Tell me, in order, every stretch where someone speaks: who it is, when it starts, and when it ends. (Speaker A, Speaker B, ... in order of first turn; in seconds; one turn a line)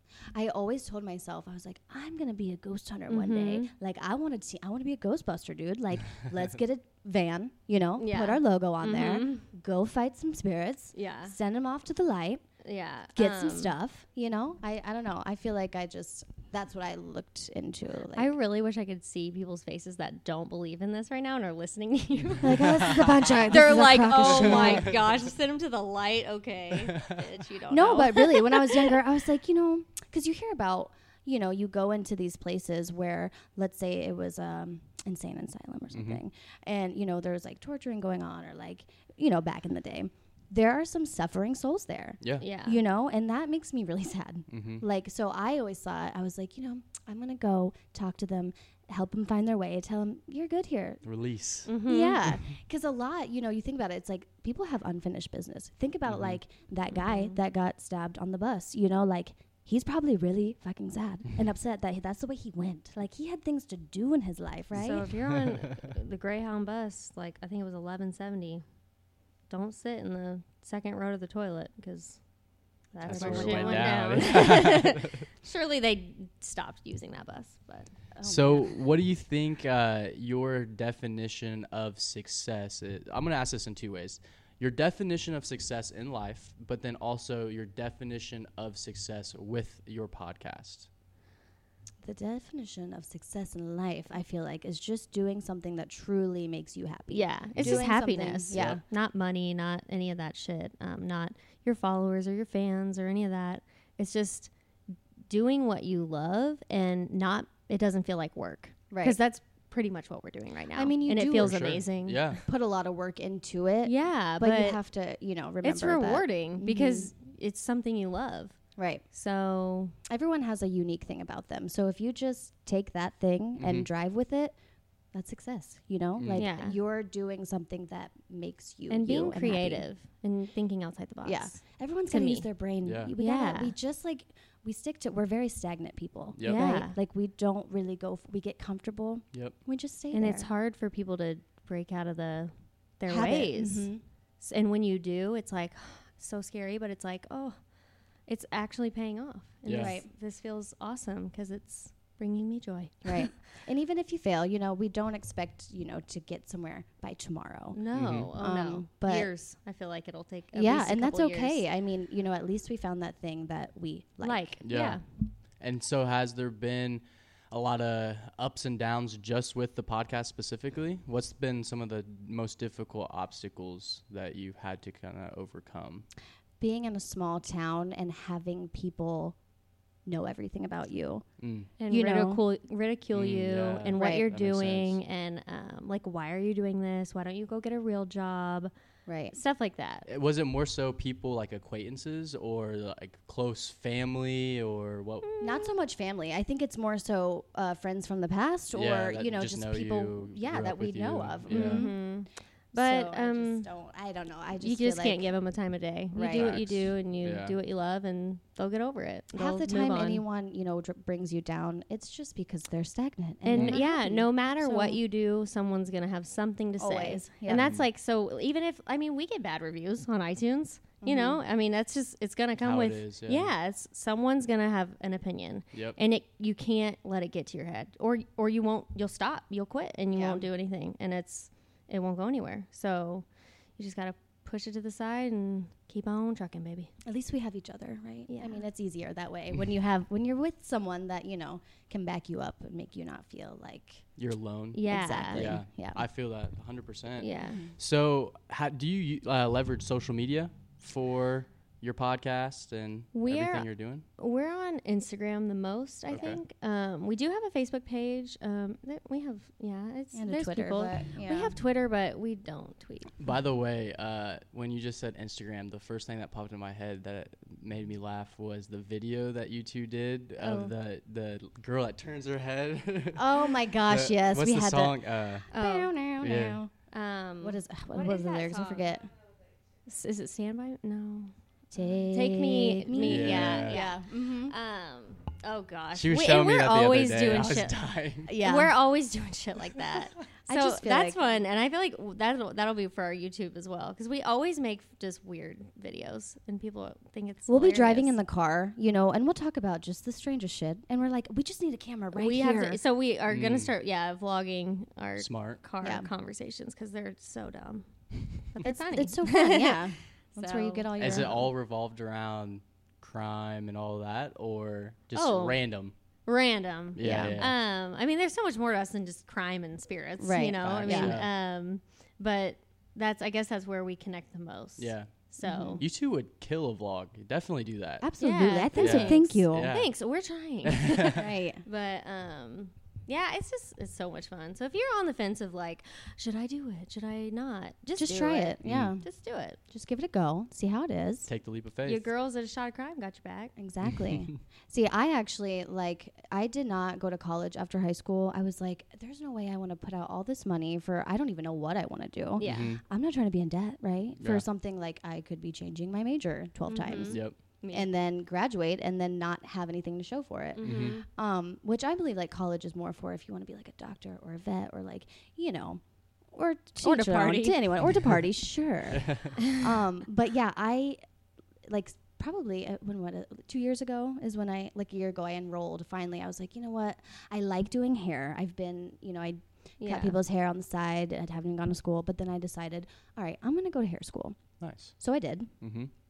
Speaker A: 0.3-12.4
Speaker B: 3.1-3.7
Speaker B: 8.0-9.5
Speaker B: 11.0-11.3
Speaker B: 12.6-13.7
Speaker A: 13.2-18.3
Speaker B: 18.1-29.0
Speaker A: 22.4-25.0
Speaker C: 24.3-24.7
Speaker A: 27.7-51.0
Speaker C: 35.9-36.2
Speaker B: 42.4-42.8
Speaker C: 44.5-44.8
Speaker C: 51.0-51.7
Speaker B: 51.7-52.3
Speaker A: 51.9-65.1
Speaker C: 56.1-56.4
Speaker B: 56.9-57.4
Speaker B: 64.7-68.6
Speaker B: 69.5-72.2
Speaker B: 72.9-77.9
Speaker C: 73.0-75.2
Speaker A: 73.1-74.2
Speaker A: 78.1-78.8
Speaker C: 78.2-90.9
Speaker A: 92.0-98.8
Speaker B: 97.1-104.5
Speaker C: 97.5-97.9
Speaker C: 98.5-98.8
Speaker B: 105.3-112.3
Speaker A: 108.9-109.2
Speaker A: 110.7-111.8
Speaker C: 111.4-112.4
Speaker A: 112.5-117.1
Speaker B: 113.8-114.8
Speaker B: 115.6-118.6
Speaker A: 118.8-119.0
Speaker B: 119.1-120.0
Speaker A: 120.1-124.6
Speaker C: 123.6-123.9
Speaker A: 125.1-129.9
Speaker C: 126.2-126.5
Speaker B: 126.3-126.8
Speaker B: 128.9-132.5
Speaker A: 131.2-140.5
Speaker C: 132.8-133.1
Speaker B: 133.2-133.8
Speaker C: 136.3-136.7
Speaker B: 136.4-137.0
Speaker B: 140.1-147.6
Speaker A: 143.1-144.0
Speaker B: 148.3-153.4
Speaker C: 149.6-150.0
Speaker A: 149.8-150.1
Speaker A: 153.1-159.3
Speaker B: 157.7-161.6
Speaker C: 157.9-158.3
Speaker A: 160.5-164.6
Speaker B: 164.2-165.0
Speaker C: 164.6-165.0
Speaker C: 165.6-176.1
Speaker A: 176.6-179.4
Speaker A: 180.1-181.2
Speaker C: 181.4-181.7
Speaker B: 181.8-188.7
Speaker A: 181.9-182.4
Speaker C: 183.1-185.0
Speaker A: 183.9-184.3
Speaker A: 189.1-189.3
Speaker B: 189.3-190.1
Speaker C: 190.1-195.3
Speaker B: 195.2-195.8
Speaker A: 195.4-202.1
Speaker C: 198.7-201.9
Speaker B: 201.5-203.7
Speaker A: 202.7-205.3
Speaker B: 204.6-210.2
Speaker A: 206.1-206.6
Speaker C: 206.3-207.6
Speaker A: 209.3-215.0
Speaker B: 213.4-233.2
Speaker C: 213.5-213.8
Speaker A: 216.8-217.7
Speaker C: 217.5-217.8
Speaker A: 221.0-221.4
Speaker C: 222.6-223.5
Speaker C: 225.7-226.0
Speaker A: 230.1-230.5
Speaker B: 233.8-236.9
Speaker A: 237.1-244.1
Speaker B: 238.3-238.6
Speaker C: 244.2-254.1
Speaker B: 244.7-245.5
Speaker A: 244.9-246.0
Speaker B: 247.2-247.6
Speaker A: 247.5-247.7
Speaker B: 253.1-263.1
Speaker C: 256.1-256.4
Speaker A: 260.1-261.6
Speaker C: 263.2-275.5
Speaker B: 270.4-270.7
Speaker A: 273.1-276.7
Speaker B: 275.5-276.0
Speaker C: 276.2-276.6
Speaker B: 276.9-278.9
Speaker A: 277.4-279.1
Speaker B: 279.9-281.3
Speaker A: 281.7-284.6
Speaker B: 282.0-287.8
Speaker C: 283.0-283.8
Speaker C: 285.9-288.3
Speaker A: 288.3-288.8
Speaker B: 288.4-298.2
Speaker A: 290.4-291.4
Speaker A: 297.5-302.8
Speaker B: 302.1-311.1
Speaker C: 303.3-303.7
Speaker C: 305.2-305.6
Speaker A: 305.8-306.1
Speaker A: 308.6-311.5
Speaker C: 311.0-315.9
Speaker B: 315.1-315.7
Speaker B: 316.3-325.8
Speaker C: 317.0-317.5
Speaker A: 317.0-317.4
Speaker A: 320.2-321.2
Speaker C: 320.6-321.3
Speaker C: 324.8-325.1
Speaker A: 325.4-325.8
Speaker C: 325.8-328.1
Speaker A: 328.0-329.8
Speaker B: 328.2-339.6
Speaker C: 328.8-329.9
Speaker C: 330.6-331.2
Speaker A: 331.1-331.6
Speaker A: 337.9-339.0
Speaker C: 338.6-339.0
Speaker A: 339.7-341.3
Speaker C: 341.3-342.1
Speaker B: 341.9-343.5
Speaker A: 343.6-357.2
Speaker B: 352.4-352.8
Speaker C: 352.4-352.8
Speaker C: 354.2-354.4
Speaker B: 356.7-357.9
Speaker C: 357.1-357.4
Speaker A: 357.7-371.0
Speaker B: 360.6-361.1
Speaker C: 360.6-361.0
Speaker B: 366.8-367.7
Speaker C: 369.0-369.3
Speaker A: 371.7-384.4
Speaker B: 379.8-380.2
Speaker C: 384.6-384.9
Speaker A: 385.0-385.5
Speaker C: 385.6-385.9